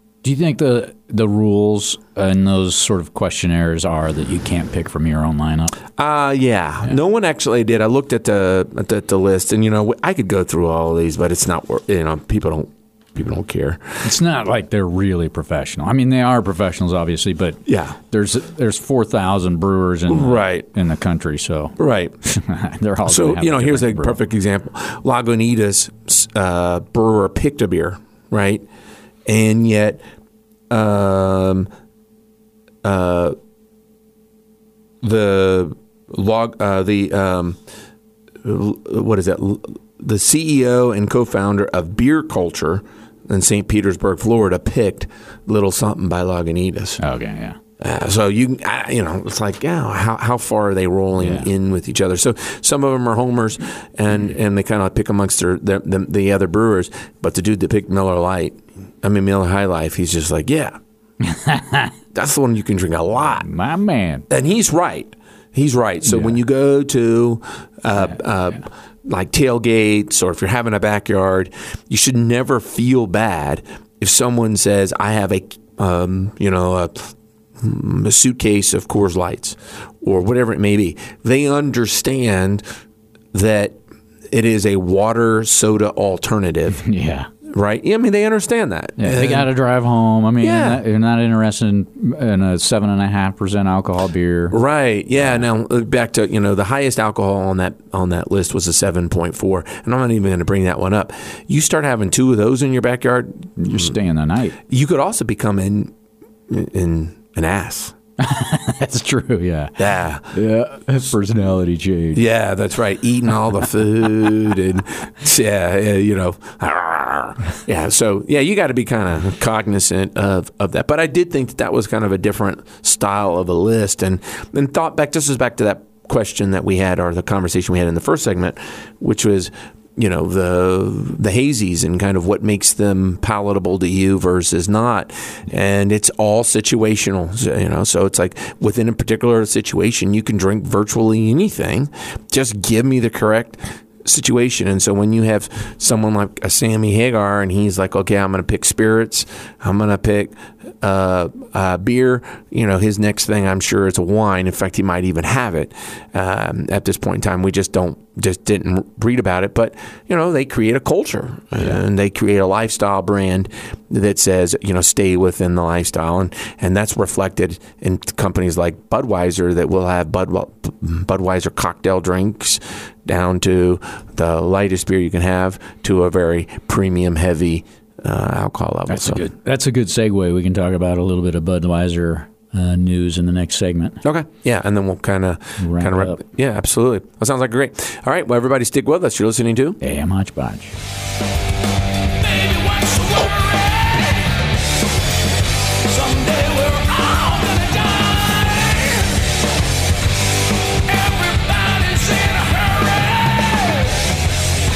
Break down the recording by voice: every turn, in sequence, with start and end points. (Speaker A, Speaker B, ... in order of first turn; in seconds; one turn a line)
Speaker A: 0.2-5.8
Speaker B: 6.0-14.0
Speaker A: 14.0-24.2
Speaker B: 17.7-18.0
Speaker B: 20.1-20.7
Speaker B: 21.8-22.1
Speaker B: 23.0-28.6
Speaker B: 29.2-30.0
Speaker B: 30.7-31.7
Speaker B: 32.8-33.4
Speaker B: 35.0-37.6
Speaker B: 38.4-47.0
Speaker A: 47.0-47.6
Speaker B: 47.8-60.8
Speaker A: 51.2-51.5
Speaker A: 61.2-61.9
Speaker B: 62.1-63.5
Speaker A: 63.4-64.2
Speaker B: 64.3-82.6
Speaker A: 66.0-66.4
Speaker B: 83.3-83.8
Speaker B: 84.3-86.8
Speaker A: 86.7-87.3
Speaker B: 87.5-89.5
Speaker A: 89.0-94.5
Speaker B: 90.4-90.8
Speaker B: 94.5-103.9
Speaker A: 103.6-104.6
Speaker B: 104.7-105.9
Speaker B: 106.5-107.9
Speaker A: 108.2-112.2
Speaker B: 109.8-110.3
Speaker B: 112.1-179.2
Speaker A: 178.9-184.0
Speaker B: 184.0-189.8
Speaker A: 185.6-186.2
Speaker A: 189.8-190.7
Speaker A: 192.2-194.3
Speaker A: 195.8-199.1
Speaker A: 200.9-203.8